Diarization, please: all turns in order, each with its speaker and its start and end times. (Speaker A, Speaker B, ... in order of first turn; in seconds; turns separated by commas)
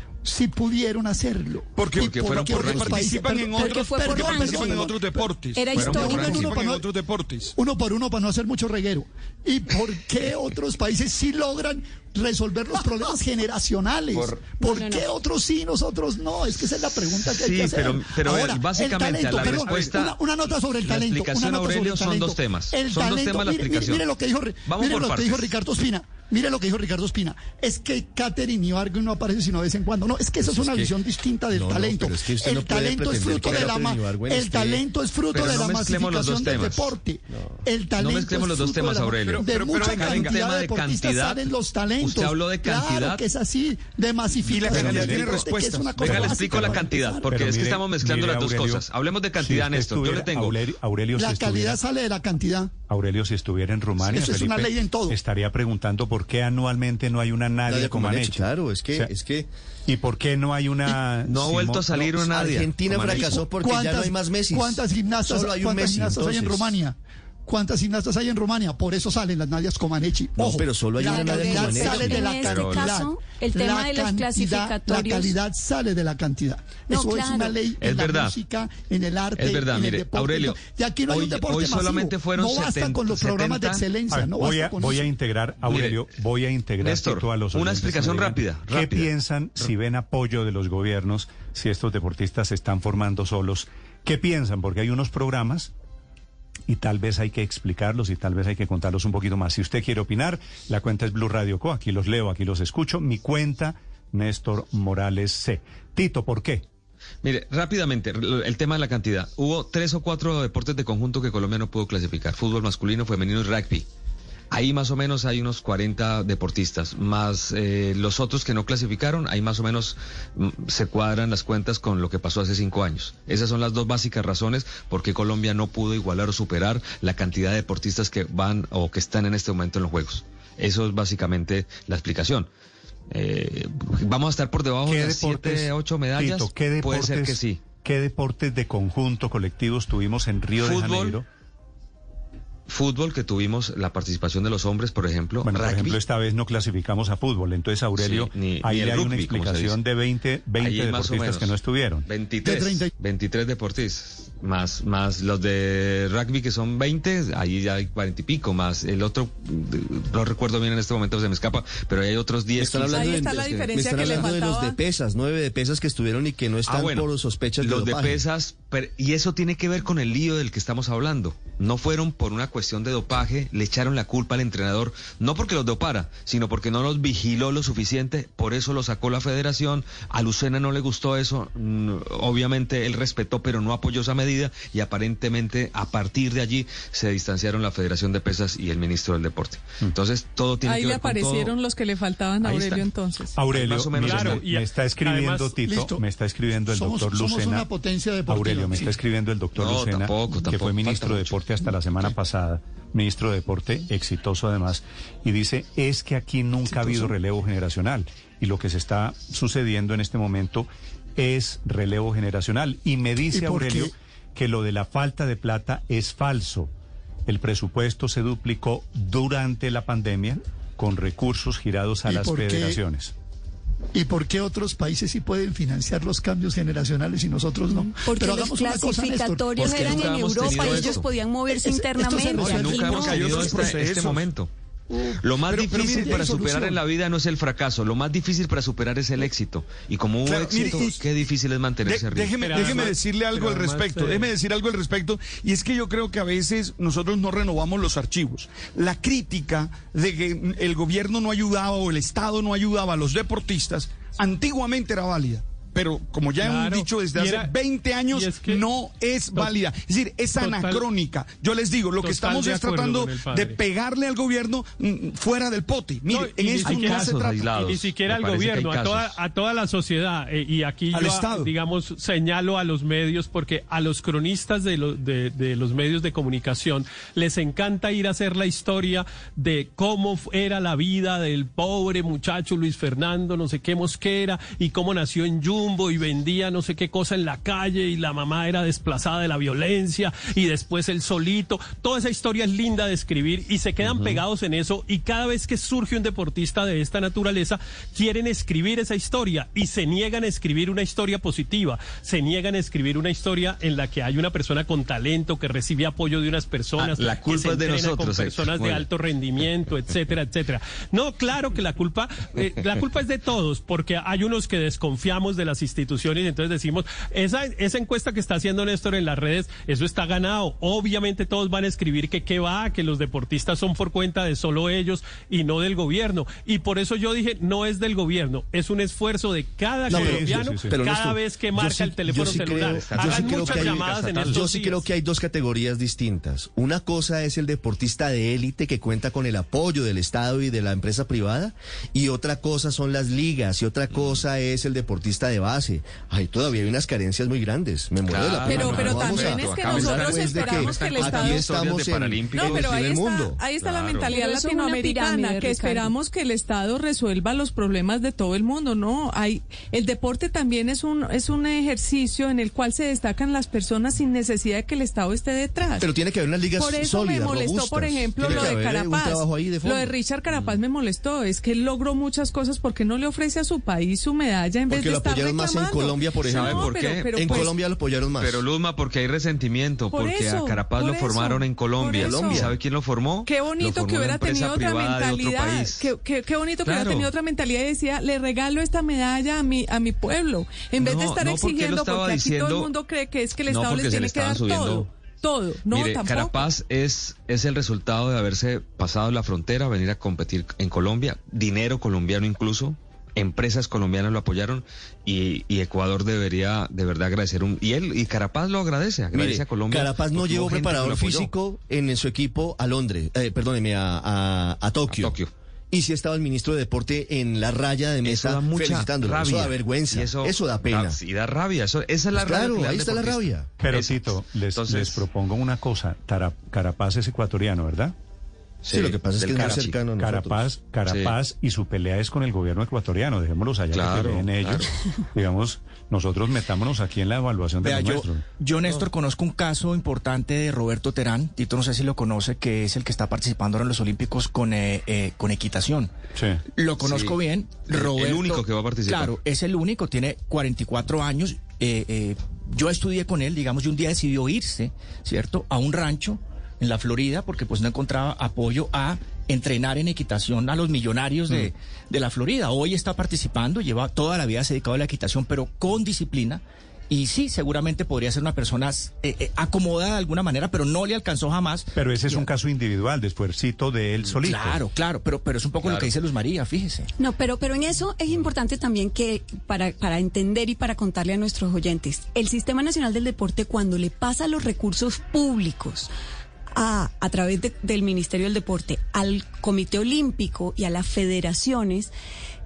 Speaker A: 0.2-5.3, Speaker B: 1.8-7.5, Speaker C: 2.0-3.1, Speaker D: 3.5-4.9, Speaker D: 5.5-6.2, Speaker C: 5.8-6.6, Speaker A: 5.8-6.9, Speaker A: 7.5-47.3, Speaker C: 14.1-14.5, Speaker D: 14.6-15.1, Speaker C: 17.3-24.1, Speaker C: 24.7-25.5, Speaker C: 30.4-30.9, Speaker E: 31.5-34.8, Speaker C: 33.1-33.7, Speaker C: 35.3-37.0, Speaker C: 38.0-41.5, Speaker B: 39.2-40.2, Speaker C: 42.0-43.2, Speaker B: 44.5-46.9, Speaker F: 44.7-45.4, Speaker C: 46.0-50.6, Speaker F: 47.3-48.9, Speaker F: 49.4-51.8, Speaker A: 51.1-52.7, Speaker F: 52.9-58.4, Speaker A: 54.1-55.2, Speaker E: 57.7-59.5, Speaker F: 59.9-62.2, Speaker C: 61.2-63.4, Speaker E: 62.2-66.8, Speaker A: 63.1-85.1, Speaker E: 70.4-72.3, Speaker D: 71.0-75.4, Speaker C: 72.3-72.9, Speaker D: 76.9-77.6, Speaker C: 77.8-78.4, Speaker C: 79.4-83.8, Speaker F: 84.1-95.7, Speaker C: 85.6-86.1, Speaker C: 86.8-89.7, Speaker F: 96.7-106.7, Speaker C: 107.2-113.9, Speaker C: 114.5-132.5, Speaker C: 133.1-137.6, Speaker F: 134.9-141.2, Speaker C: 140.6-141.2, Speaker C: 142.7-146.0, Speaker F: 145.4-152.1, Speaker C: 148.0-149.8, Speaker C: 150.6-164.4, Speaker A: 152.4-152.9, Speaker E: 162.6-168.2, Speaker G: 162.9-164.7, Speaker C: 166.7-191.6, Speaker G: 190.6-193.4, Speaker C: 192.4-192.9, Speaker F: 193.3-197.7, Speaker C: 193.5-194.4, Speaker H: 193.9-195.6, Speaker A: 195.6-196.0, Speaker A: 196.7-198.9, Speaker F: 198.3-216.7, Speaker C: 199.6-201.4, Speaker A: 206.7-207.1, Speaker A: 213.3-213.9, Speaker F: 217.2-223.1, Speaker A: 222.1-222.8, Speaker A: 223.9-232.9, Speaker D: 228.0-233.8, Speaker C: 229.6-231.1, Speaker C: 232.3-234.5, Speaker B: 232.4-234.2, Speaker A: 234.9-235.2, Speaker C: 235.2-242.4, Speaker B: 235.4-236.1, Speaker A: 235.8-236.8, Speaker B: 240.2-241.2, Speaker B: 241.8-267.4, Speaker H: 242.4-244.3, Speaker H: 256.4-257.5, Speaker H: 258.1-258.6, Speaker H: 260.4-260.9, Speaker H: 262.0-263.6, Speaker H: 266.1-334.9, Speaker C: 266.7-269.2, Speaker B: 270.9-271.5, Speaker C: 293.8-294.2, Speaker C: 306.8-308.9, Speaker E: 329.9-353.4, Speaker F: 329.9-330.8, Speaker C: 332.1-334.4, Speaker C: 343.9-344.2, Speaker C: 348.1-352.7, Speaker G: 348.6-351.4, Speaker A: 348.6-348.9, Speaker G: 352.3-365.9, Speaker C: 353.6-354.1, Speaker D: 354.1-355.9, Speaker E: 365.8-369.9, Speaker G: 366.6-377.5, Speaker C: 368.2-368.6, Speaker C: 370.3-370.6, Speaker E: 374.7-376.6, Speaker C: 376.2-377.6, Speaker E: 377.1-378.4, Speaker C: 378.1-385.9, Speaker G: 379.9-382.4, Speaker E: 381.9-382.6, Speaker G: 383.3-396.4, Speaker C: 386.5-387.1, Speaker C: 390.8-392.8, Speaker C: 393.4-394.9, Speaker C: 395.7-411.3, Speaker E: 409.1-415.2, Speaker C: 414.9-415.3, Speaker E: 415.7-421.0, Speaker C: 418.0-425.1, Speaker E: 422.1-423.5, Speaker F: 423.6-427.9, Speaker C: 428.6-429.8, Speaker E: 428.7-430.5, Speaker F: 430.0-438.2, Speaker C: 430.9-431.1, Speaker C: 433.7-434.7, Speaker I: 437.6-445.9, Speaker I: 446.6-472.3, Speaker C: 446.8-447.1, Speaker C: 447.7-449.1, Speaker F: 471.8-474.6, Speaker I: 474.2-476.9, Speaker C: 475.6-475.9, Speaker D: 477.0-485.9, Speaker D: 486.6-491.9